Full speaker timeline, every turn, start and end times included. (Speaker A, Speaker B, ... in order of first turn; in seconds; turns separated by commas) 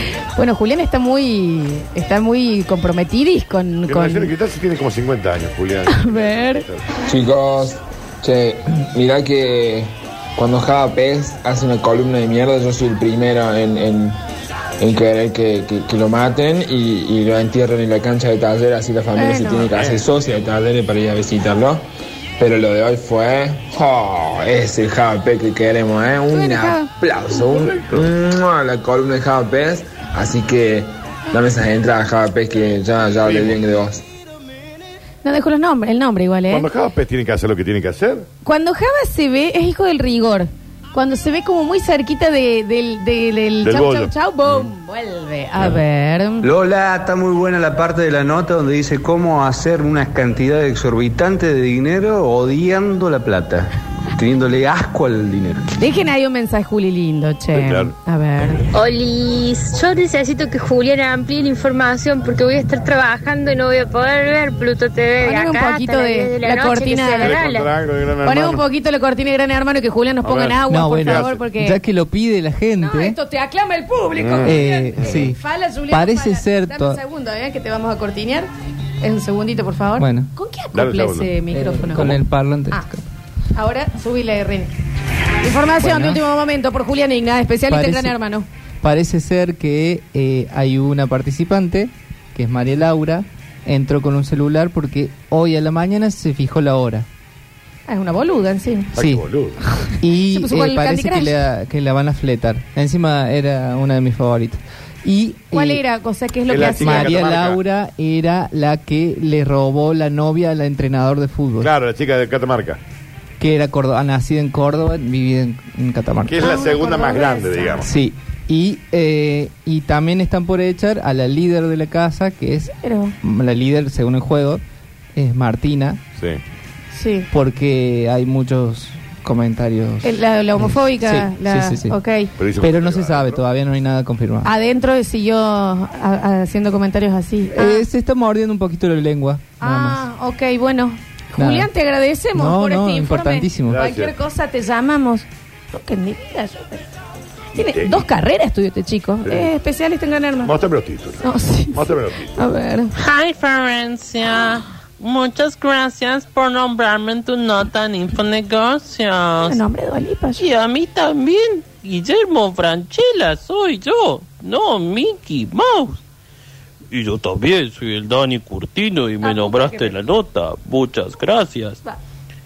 Speaker A: 0.3-4.3, Speaker B: 3.9-6.9, Speaker A: 5.9-6.6, Speaker C: 7.0-14.2, Speaker C: 14.8-21.9, Speaker A: 19.1-19.7, Speaker B: 19.7-20.0, Speaker C: 22.4-34.0, Speaker A: 26.3-26.9, Speaker B: 27.5-28.1, Speaker B: 33.2-33.5, Speaker A: 35.2-36.7, Speaker B: 36.5-38.3, Speaker A: 38.4-46.5, Speaker B: 43.6-44.7, Speaker D: 46.4-55.6, Speaker A: 55.8-58.6, Speaker B: 57.5-57.9, Speaker E: 58.7-67.7, Speaker A: 65.2-67.4, Speaker B: 67.2-68.6, Speaker A: 68.2-71.8, Speaker B: 70.2-71.4, Speaker F: 70.7-73.2, Speaker A: 72.8-78.5, Speaker B: 74.2-75.2, Speaker F: 74.4-75.4, Speaker F: 75.9-77.0, Speaker A: 79.0-82.2, Speaker F: 80.0-80.3, Speaker B: 80.7-81.3, Speaker F: 81.5-83.0, Speaker A: 83.5-84.7, Speaker A: 85.4-88.5, Speaker F: 85.8-86.2, Speaker F: 87.7-88.2, Speaker F: 88.8-97.1, Speaker A: 97.9-98.9, Speaker B: 98.9-99.6, Speaker F: 99.0-99.2, Speaker A: 99.7-101.4, Speaker F: 100.0-105.8, Speaker A: 105.5-107.2, Speaker B: 106.5-107.6, Speaker F: 106.5-111.7, Speaker B: 111.6-112.8, Speaker F: 113.4-116.5, Speaker B: 116.3-117.9, Speaker A: 116.4-117.8, Speaker F: 117.8-124.6, Speaker A: 122.8-123.1, Speaker F: 125.1-126.0, Speaker A: 126.9-127.3, Speaker F: 127.3-132.0, Speaker A: 130.0-132.3, Speaker B: 132.4-133.4, Speaker F: 132.6-134.5, Speaker A: 134.4-137.8, Speaker F: 137.6-140.0, Speaker A: 139.6-146.9, Speaker F: 141.4-141.7, Speaker F: 142.3-143.8, Speaker B: 143.7-144.1, Speaker B: 147.6-148.1, Speaker A: 147.6-150.5, Speaker B: 149.2-149.5, Speaker B: 150.4-152.3, Speaker A: 151.2-152.9, Speaker G: 153.0-159.6, Speaker A: 159.5-160.4, Speaker G: 160.4-166.0, Speaker G: 166.9-171.8, Speaker A: 169.2-170.0